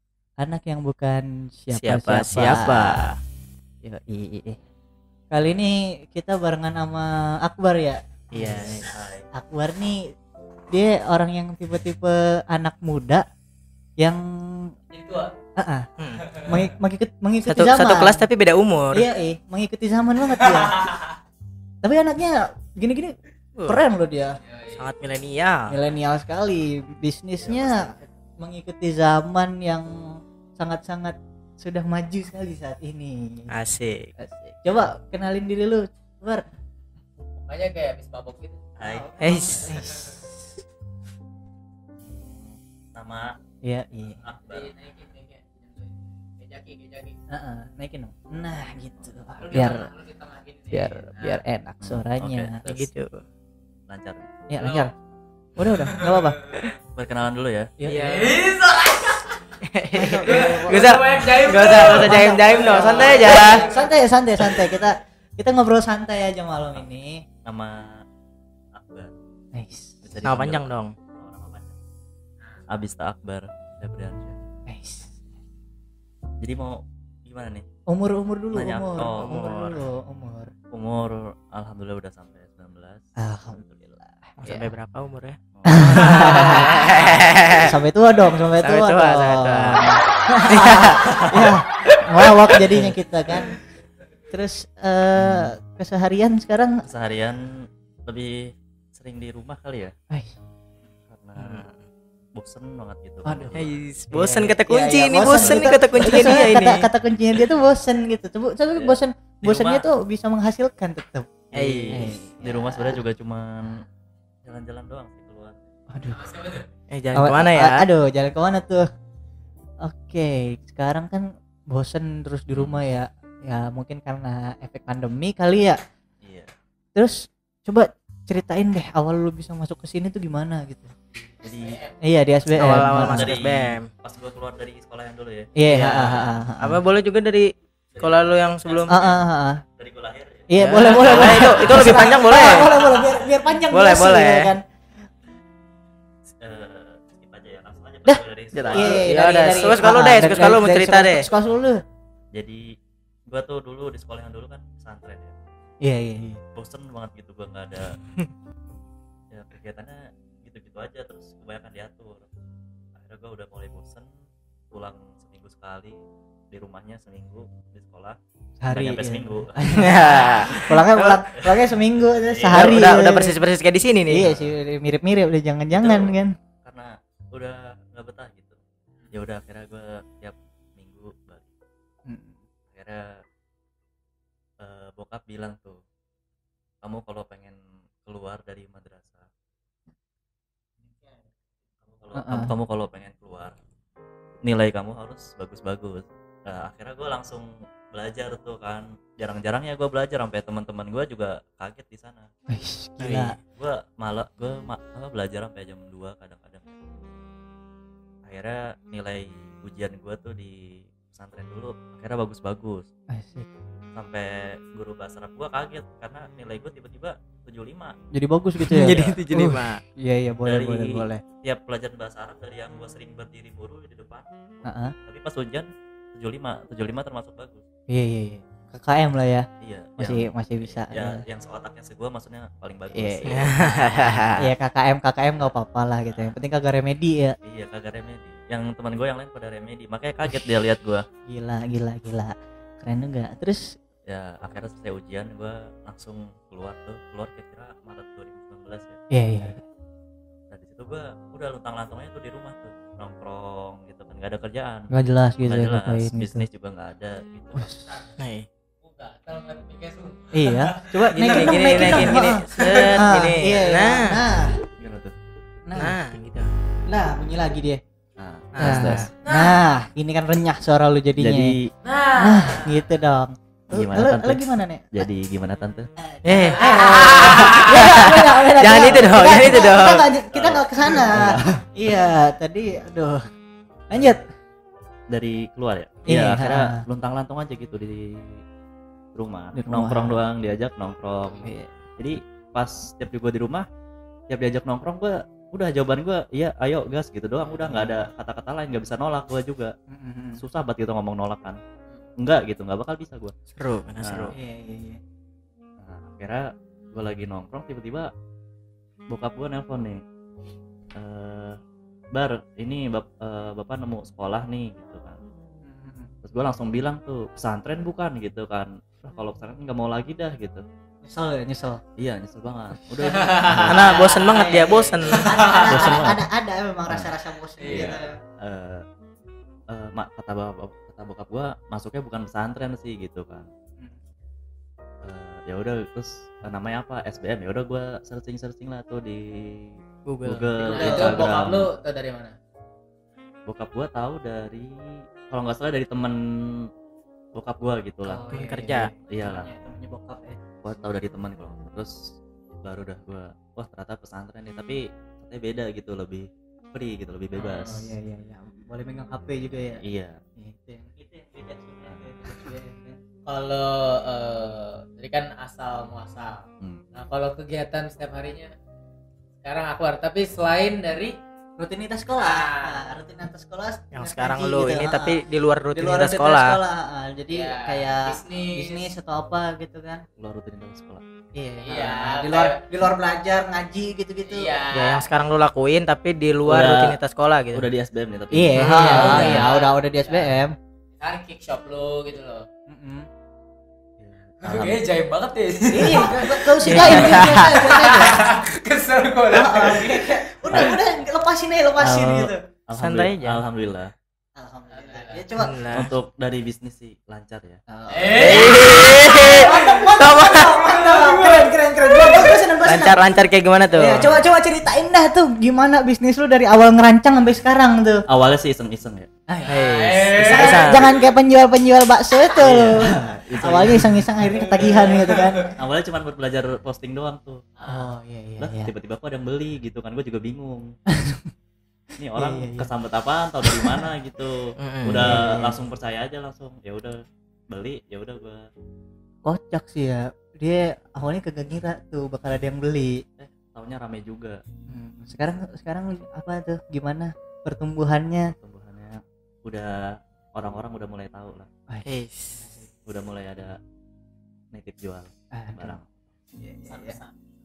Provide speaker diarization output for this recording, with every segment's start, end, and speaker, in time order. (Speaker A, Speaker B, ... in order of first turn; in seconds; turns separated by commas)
Speaker A: 0.4-3.1, Speaker B: 1.7-3.2, Speaker A: 3.8-4.6, Speaker A: 5.3-10.0, Speaker B: 8.3-8.8, Speaker C: 8.6-9.3, Speaker A: 10.7-13.2, Speaker A: 14.0-14.7, Speaker D: 14.9-15.3, Speaker A: 15.6-15.9, Speaker B: 16.0-16.3, Speaker D: 16.2-16.5, Speaker A: 16.5-18.3, Speaker B: 17.4-19.1, Speaker A: 18.9-21.0, Speaker D: 20.4-21.0, Speaker A: 21.8-23.1, Speaker B: 23.6-23.8, Speaker A: 23.7-24.4, Speaker D: 24.4-24.9, Speaker B: 24.7-25.7, Speaker A: 25.7-29.9, Speaker C: 27.4-28.0, Speaker A: 30.6-33.5, Speaker B: 33.5-34.1, Speaker A: 34.2-36.4, Speaker D: 37.4-38.7, Speaker C: 38.8-39.8, Speaker A: 38.8-40.3, Speaker B: 39.2-39.6, Speaker D: 39.7-40.0, Speaker C: 42.0-43.3, Speaker A: 43.6-44.2, Speaker C: 44.2-44.7, Speaker D: 44.5-47.2, Speaker A: 47.3-49.9, Speaker C: 49.0-49.8, Speaker D: 49.5-51.4, Speaker A: 50.7-52.8, Speaker C: 51.8-52.8, Speaker B: 52.7-53.2, Speaker C: 53.9-54.3, Speaker A: 54.5-54.9, Speaker D: 54.5-54.9, Speaker A: 55.6-56.4, Speaker D: 55.8-56.7, Speaker C: 57.0-57.7, Speaker A: 57.8-58.3, Speaker D: 57.8-59.4, Speaker B: 59.7-63.6, Speaker A: 59.9-60.9, Speaker D: 60.2-63.9, Speaker A: 61.8-67.2, Speaker C: 67.5-67.8, Speaker C: 68.8-69.1, Speaker A: 69.5-70.1, Speaker C: 70.0-71.8, Speaker B: 70.2-70.9, Speaker C: 72.7-74.3, Speaker A: 74.7-75.2, Speaker C: 76.4-77.7, Speaker A: 77.9-80.5, Speaker C: 78.5-79.3, Speaker B: 79.2-79.8, Speaker C: 80.7-83.7, Speaker A: 83.2-84.7, Speaker B: 84.4-87.7, Speaker C: 85.5-87.2, Speaker A: 85.7-86.7, Speaker A: 87.6-93.6, Speaker B: 88.6-89.9, Speaker B: 90.5-91.4, Speaker B: 92.4-92.9, Speaker A: 94.3-96.8, Speaker B: 95.2-95.5, Speaker C: 96.9-97.4, Speaker C: 98.1-99.9, Speaker C: 101.1-101.7, Speaker B: 101.4-101.9, Speaker C: 102.4-103.7, Speaker A: 103.2-113.0, Speaker B: 103.5-106.9, Speaker C: 105.3-106.3, Speaker C: 108.8-109.9, Speaker B: 111.5-112.1, Speaker C: 111.5-113.8, Speaker C: 114.5-115.6, Speaker A: 115.9-116.3, Speaker D: 116.2-116.7, Speaker B: 116.9-117.9, Speaker A: 117.1-118.8, Speaker A: 119.8-125.8, Speaker C: 122.5-122.8, Speaker C: 126.2-126.5, Speaker A: 127.0-130.9, Speaker C: 131.4-131.8, Speaker D: 131.4-132.0, Speaker A: 132.0-133.4, Speaker B: 132.6-133.9, Speaker C: 132.9-135.5, Speaker A: 135.6-136.8, Speaker B: 135.7-139.0, Speaker C: 136.1-136.3, Speaker C: 137.9-139.2, Speaker A: 138.9-139.6, Speaker C: 139.8-143.3, Speaker A: 140.5-144.6, Speaker B: 140.6-142.7, Speaker B: 143.7-144.5, Speaker C: 146.4-149.1, Speaker A: 148.1-151.8, Speaker B: 148.5-151.3, Speaker C: 152.3-152.6, Speaker C: 153.3-155.4, Speaker A: 155.8-156.4, Speaker C: 156.6-158.0, Speaker C: 159.3-162.3, Speaker C: 163.0-164.1, Speaker C: 164.7-170.7, Speaker A: 168.6-169.9, Speaker B: 169.8-171.2, Speaker A: 170.7-173.4, Speaker C: 172.3-173.0, Speaker B: 172.5-174.3, Speaker A: 174.1-176.3, Speaker C: 174.2-174.5, Speaker C: 175.7-176.1, Speaker C: 176.7-178.6, Speaker C: 179.1-181.5, Speaker A: 182.1-182.4, Speaker C: 182.7-183.0, Speaker C: 184.6-185.8, Speaker C: 186.8-189.3, Speaker C: 191.9-193.6, Speaker A: 192.1-192.5, Speaker C: 194.4-202.3, Speaker A: 202.5-203.4, Speaker B: 203.0-203.3, Speaker C: 203.5-206.8, Speaker C: 208.3-212.9, Speaker A: 213.1-213.5, Speaker C: 214.0-217.9, Speaker A: 218.1-221.2, Speaker B: 218.6-219.8, Speaker C: 220.4-224.3, Speaker A: 224.7-224.9, Speaker C: 225.1-227.6, Speaker A: 227.9-231.2, Speaker C: 229.6-234.3, Speaker A: 232.9-233.4, Speaker B: 233.3-234.5, Speaker A: 234.4-237.4, Speaker C: 236.1-236.4, Speaker C: 237.4-241.0, Speaker A: 241.3-243.6, Speaker C: 244.1-249.0, Speaker A: 249.1-249.6, Speaker C: 250.5-254.9, Speaker A: 254.9-256.5, Speaker C: 255.4-257.7, Speaker A: 257.5-257.9, Speaker D: 257.8-258.2, Speaker B: 258.2-258.5, Speaker D: 258.8-260.4, Speaker A: 260.3-264.6, Speaker B: 261.1-264.2, Speaker C: 261.7-262.9, Speaker C: 264.8-265.1, Speaker A: 265.7-266.0, Speaker B: 265.8-266.5, Speaker A: 266.9-267.8, Speaker C: 268.2-269.1, Speaker B: 268.5-269.1, Speaker A: 268.6-271.6, Speaker D: 269.2-269.6, Speaker C: 271.2-271.7, Speaker D: 271.8-272.8, Speaker A: 272.2-275.1, Speaker C: 273.7-275.9, Speaker A: 276.0-283.2, Speaker B: 276.2-280.1, Speaker D: 276.3-277.8, Speaker C: 278.7-281.2, Speaker A: 283.9-284.2, Speaker C: 285.1-288.4, Speaker A: 286.1-286.8, Speaker C: 289.1-293.7, Speaker A: 289.6-290.2, Speaker A: 291.4-291.7, Speaker C: 294.3-299.7, Speaker A: 297.6-297.9, Speaker A: 299.9-300.4, Speaker C: 300.4-301.6, Speaker C: 302.2-303.3, Speaker B: 303.6-304.3, Speaker C: 304.0-304.3, Speaker A: 304.3-305.0, Speaker C: 305.8-308.1, Speaker C: 309.1-310.0, Speaker C: 311.0-311.6, Speaker C: 312.1-315.2, Speaker A: 315.6-316.1, Speaker C: 316.2-320.6, Speaker A: 321.0-321.8, Speaker C: 322.0-324.1, Speaker D: 323.2-324.3, Speaker A: 323.4-328.1, Speaker B: 323.7-325.3, Speaker D: 325.1-325.9, Speaker C: 325.6-326.2, Speaker C: 326.9-328.8, Speaker D: 327.6-328.0, Speaker C: 329.7-333.5, Speaker C: 335.0-341.7, Speaker B: 340.1-340.4, Speaker D: 340.6-342.4, Speaker A: 340.6-341.2, Speaker C: 343.5-344.8, Speaker C: 345.3-346.2, Speaker C: 347.4-348.2, Speaker A: 348.0-350.4, Speaker B: 348.3-348.9, Speaker C: 349.1-349.5, Speaker C: 350.6-352.0, Speaker C: 352.6-357.9, Speaker A: 357.4-359.8, Speaker C: 359.8-360.2, Speaker A: 360.4-363.0, Speaker D: 363.3-368.5, Speaker D: 369.4-371.2, Speaker A: 371.6-375.2, Speaker D: 372.2-372.8, Speaker B: 373.9-376.6, Speaker A: 375.7-380.0, Speaker D: 377.3-378.9, Speaker C: 380.2-381.0, Speaker A: 381.4-384.6, Speaker D: 381.6-382.6, Speaker D: 384.3-385.1, Speaker B: 384.7-387.6, Speaker C: 386.4-387.0, Speaker C: 387.5-389.4, Speaker A: 388.3-390.5, Speaker B: 388.6-389.5, Speaker D: 389.0-390.3, Speaker D: 391.0-392.4, Speaker A: 392.7-393.1, Speaker C: 394.0-394.9, Speaker D: 394.4-400.6, Speaker A: 395.7-398.3, Speaker B: 396.6-397.5, Speaker C: 396.7-397.1, Speaker A: 399.3-402.4, Speaker C: 400.5-400.8, Speaker C: 401.8-403.9, Speaker B: 402.8-403.4, Speaker A: 404.4-405.6, Speaker D: 404.7-405.3, Speaker B: 405.4-405.9, Speaker C: 405.7-407.6, Speaker A: 407.7-413.2, Speaker D: 407.9-409.8, Speaker C: 408.1-408.6, Speaker B: 408.3-410.5, Speaker D: 410.4-412.2, Speaker B: 412.6-414.2, Speaker A: 413.7-418.1, Speaker C: 418.1-419.1, Speaker A: 419.3-419.7, Speaker B: 419.5-420.8, Speaker D: 419.6-420.8, Speaker A: 420.2-425.5, Speaker C: 422.4-424.1, Speaker D: 424.5-425.5, Speaker C: 425.6-427.4, Speaker D: 427.6-427.9, Speaker A: 427.7-428.7, Speaker C: 428.4-430.7, Speaker A: 430.9-431.2, Speaker C: 432.0-437.0, Speaker A: 432.1-432.7, Speaker A: 433.4-433.9, Speaker B: 434.6-435.0, Speaker A: 435.0-435.6, Speaker C: 437.5-438.4, Speaker A: 439.2-443.0, Speaker C: 443.2-444.4, Speaker A: 444.7-448.3, Speaker C: 448.3-449.8, Speaker C: 450.4-451.5, Speaker A: 451.7-452.7, Speaker B: 451.9-452.4, Speaker C: 452.9-453.6, Speaker C: 454.5-455.9, Speaker A: 455.3-455.8, Speaker A: 456.4-457.0, Speaker D: 456.7-457.0